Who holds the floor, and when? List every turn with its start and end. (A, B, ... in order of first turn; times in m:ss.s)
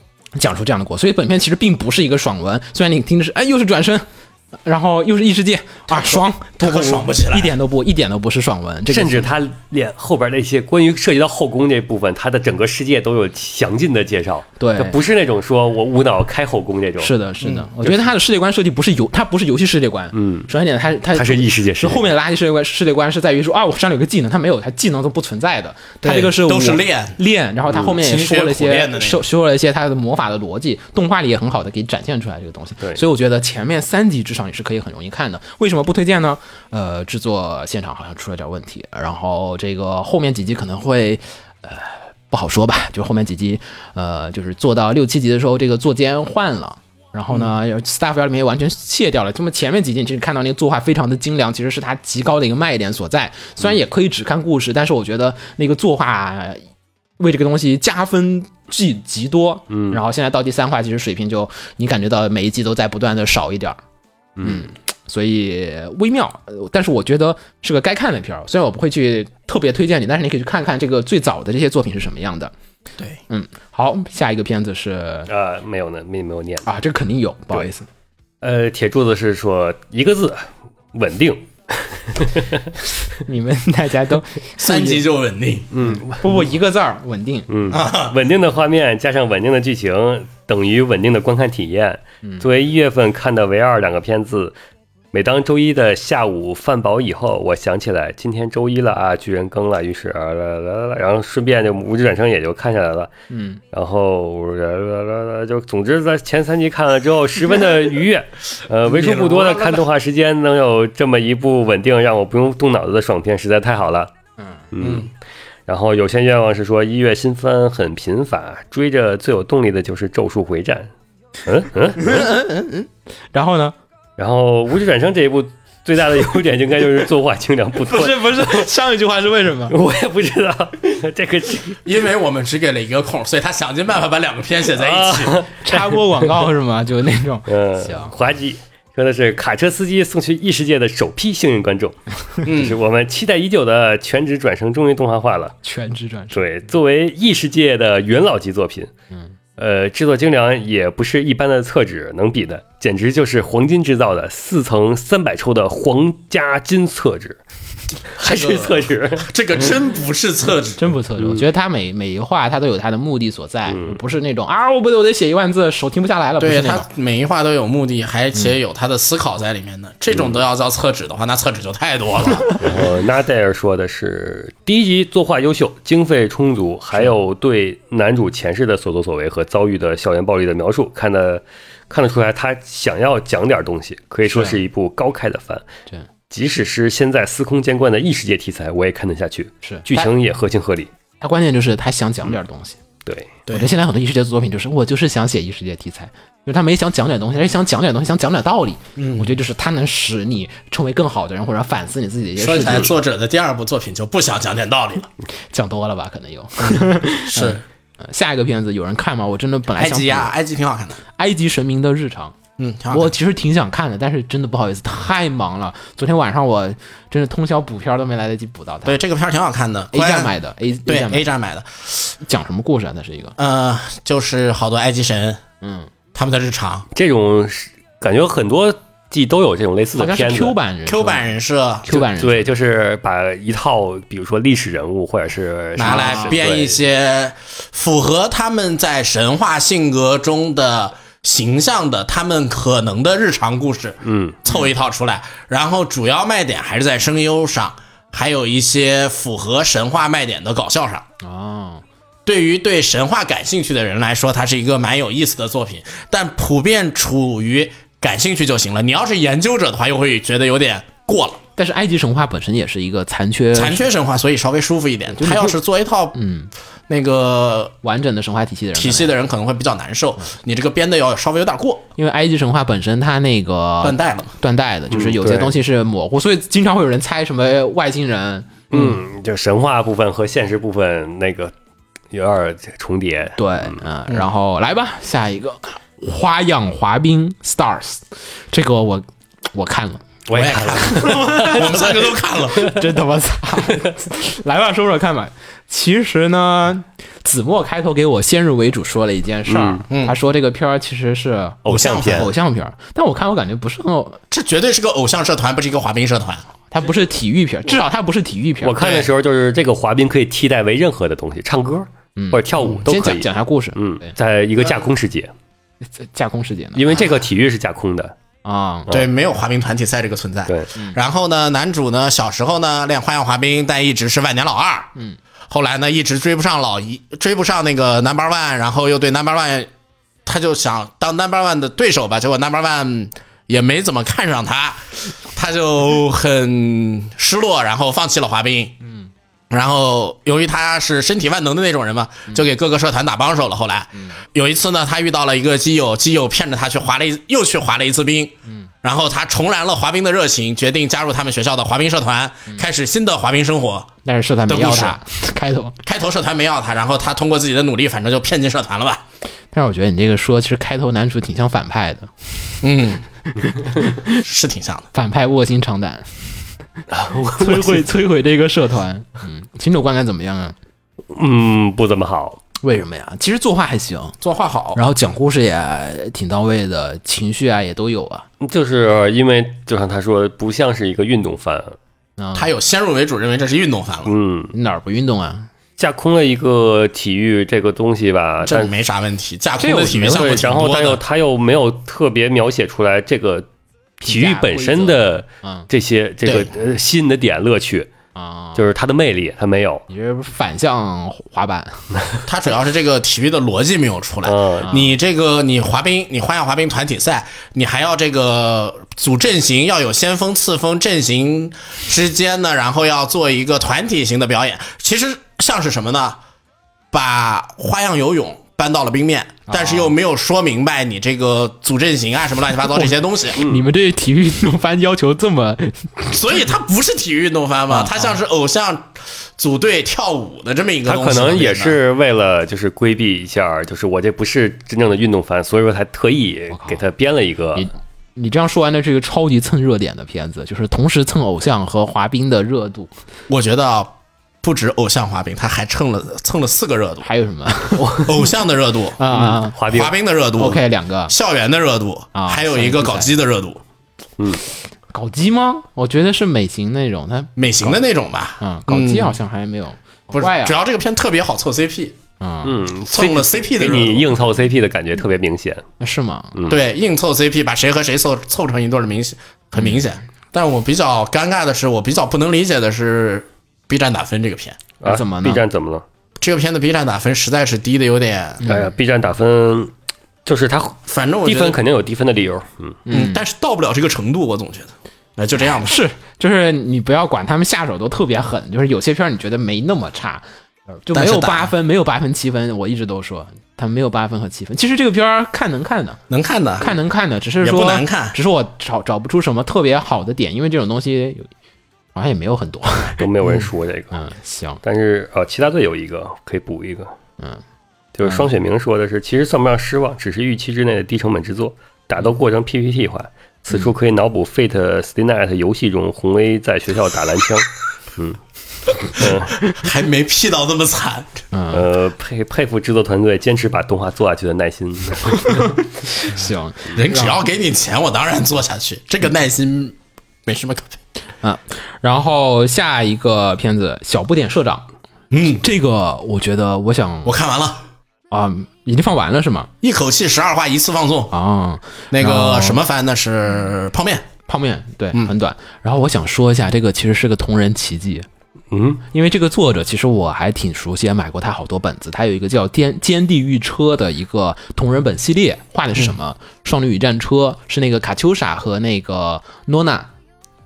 0:00.4-0:04.0 A
0:04.6-0:09.3 A
0:05.9-0:07.5 B
0:08.9-0:17.1 C
0:14.6-0:15.0 A
0:17.0-0:56.6 A
0:17.8-0:18.1 C
0:20.1-0:20.5 C
0:21.1-0:22.1 C
0:26.3-0:27.2 B
0:27.8-0:29.2 B
0:57.2-1:03.8 A
0:59.7-1:00.0 C
1:04.4-1:04.7 C
1:04.4-1:12.5 A
1:13.3-1:15.3 A
1:15.3-1:16.7 C
1:16.6-1:17.9 A
1:18.4-1:22.7 C
1:23.2-1:25.0 A
1:24.6-1:25.7 B
1:25.7-1:26.2 C
1:25.8-1:27.5 A
1:27.5-1:34.5 C
1:27.7-1:28.1 B
1:35.1-1:43.1 C
1:43.3-1:43.6 A
1:43.7-1:54.1 C
1:48.8-1:49.9 B
1:54.7-1:55.1 C
1:54.8-1:55.1 B
1:55.7-2:00.9 C
2:01.4-2:02.2 C
2:02.0-2:03.7 A
2:04.2-2:08.7 C
2:07.9-2:09.8 A
2:09.7-2:11.8 C
2:11.8-2:15.4 B
2:14.7-2:16.2 C
2:15.6-2:18.1 A
2:17.5-2:25.5 C
2:22.4-2:22.8 B
2:25.6-2:26.7 A
2:26.3-2:28.9 C
2:29.6-2:37.4 C
2:38.1-2:39.3 C
2:38.2-2:40.9 B
2:40.8-2:46.9 A
2:41.2-2:41.4 C
2:43.7-2:44.0 C
2:46.4-2:52.6 B
2:52.6-3:05.6 C
3:04.3-3:04.6 A
3:06.3-3:10.9 C
3:09.6-3:10.1 A
3:11.2-3:12.8 A
3:13.0-3:13.3 C
3:13.5-3:22.9 A
3:19.0-3:19.4 B
3:22.4-3:25.1 B
3:25.5-3:30.3 A
3:26.6-3:27.6 B
3:29.8-3:31.0 B
3:31.1-3:32.3 A
3:32.6-3:33.1 B
3:32.9-3:39.0 A
3:38.8-3:40.3 B
3:39.9-3:41.2 A
3:40.8-3:42.1 B
3:42.2-3:43.4 A
3:43.4-3:45.4 B
3:45.6-3:45.9 A
3:46.1-3:46.8 B
3:46.9-3:50.6 C
3:50.0-3:51.2 A
3:50.8-3:52.0 B
3:51.8-3:52.5 A
3:52.0-3:56.8 C
3:55.8-4:11.0 B
3:55.8-3:56.4 A
4:04.0-4:04.4 C
4:11.2-4:11.8 A
4:12.2-4:21.4 B
4:21.6-4:23.8 A
4:23.5-4:26.2 B
4:25.1-4:25.6 A
4:26.1-4:26.5 A
4:26.9-4:27.7 B
4:27.8-4:29.1 A
4:28.7-4:31.8 B
4:32.0-4:39.0 A
4:33.8-4:34.3 B
4:34.9-4:35.5 C
4:38.7-4:41.5 C
4:42.1-4:43.8 C
4:43.4-4:50.0 A
4:50.3-4:52.8 C
4:50.3-4:52.7 B
4:50.8-4:51.9 A
4:52.5-5:04.2 A
4:59.5-4:59.8 C
4:59.9-5:00.2 B
5:01.6-5:02.3 C
5:01.7-5:02.3 B
5:04.3-5:06.5 B
5:06.7-5:08.8 A
5:08.6-5:15.3 C
5:08.8-5:09.1 B
5:12.2-5:14.1 A
5:16.0-5:17.1 A
5:16.7-5:18.1 C
5:18.4-5:18.9 A
5:18.9-5:24.9 B
5:25.5-5:29.7 B
5:30.2-5:38.7 B
5:38.8-5:39.1 A
5:39.5-5:53.9 B
5:43.9-5:44.2 A
5:54.0-5:55.8 A
5:54.5-5:55.0 B
5:55.8-5:59.0 B
5:59.5-6:02.6 A
6:02.6-6:03.0 B
6:03.3-6:04.2 A
6:04.2-6:04.9 B
6:04.9-6:06.3 A
6:06.9-6:07.8 C
6:07.3-6:10.5 A
6:11.1-6:12.4 C
6:12.6-6:14.2 A
6:14.2-6:14.8 B
6:14.7-6:18.3 A
6:18.4-6:21.8 C
6:22.2-6:22.5 A
6:22.3-6:24.1 B
6:24.0-6:24.5 C
6:24.5-6:25.5 A
6:25.8-6:28.7 C
6:28.4-6:31.0 B
6:29.6-6:30.1 A
6:29.9-6:33.5 C
6:34.0-6:37.9 C
6:34.0-6:35.7 A
6:36.2-6:36.5 B
6:38.2-6:38.6 A
6:38.5-6:39.8 C
6:39.9-6:41.9 A
6:42.2-6:56.2 B
6:44.2-6:44.7 C
6:44.6-6:44.9 A
6:56.9-7:03.4 B
6:59.5-6:59.9 A
7:02.7-7:06.3 A
7:03.4-7:03.6 C
7:06.1-7:11.8 B
7:07.7-7:08.1 A
7:10.8-7:17.7 C
7:16.5-7:16.8 A
7:17.5-7:22.9 A
7:23.3-7:27.1 B
7:27.0-7:28.3 A
7:27.9-7:29.0 B
7:29.0-7:29.6 A
7:29.2-7:29.9 C
7:29.6-7:33.6 B
7:30.4-7:31.1 A
7:32.1-7:33.1 A
7:34.9-7:37.8 A
7:37.4-7:39.1 B
7:38.4-7:40.6 A
7:40.1-7:42.0 B
7:42.2-7:42.5 A
7:42.4-7:45.6 C
7:42.9-7:44.1 B
7:45.8-7:46.4 A
7:46.3-7:46.6 C
7:46.5-7:54.6 B
7:54.8-7:55.8 C
7:54.8-7:55.4 A
7:56.2-7:58.5 B
7:58.4-7:58.7 A
7:58.4-7:59.7 C
8:00.2-8:02.8 C
8:00.9-8:01.6 B
8:02.8-8:03.2 A
8:02.9-8:05.8 B
8:05.4-8:10.2 A
8:10.8-8:16.0 A
8:10.9-8:11.5 B
8:16.1-8:16.7 B
8:16.6-8:21.3 A
8:17.4-8:18.2 B
8:21.9-8:23.0 A
8:23.0-8:24.0 C
8:23.9-8:24.6 A
8:24.6-8:26.9 C
8:28.0-8:39.4 C
8:39.5-8:41.2 B
8:41.3-8:41.6 A
8:41.5-8:45.4 C
8:45.2-8:47.2 A
8:46.7-8:50.7 B
8:51.2-8:54.6 A
8:55.1-8:55.4 B
8:55.4-8:57.1 A
8:57.0-8:57.7 B
8:58.1-8:59.5 A
8:59.6-9:01.1 B
9:01.1-9:02.6 A
9:01.9-9:04.1 B
9:04.3-9:08.0 A
9:08.5-9:08.8 C
9:08.9-9:19.9 A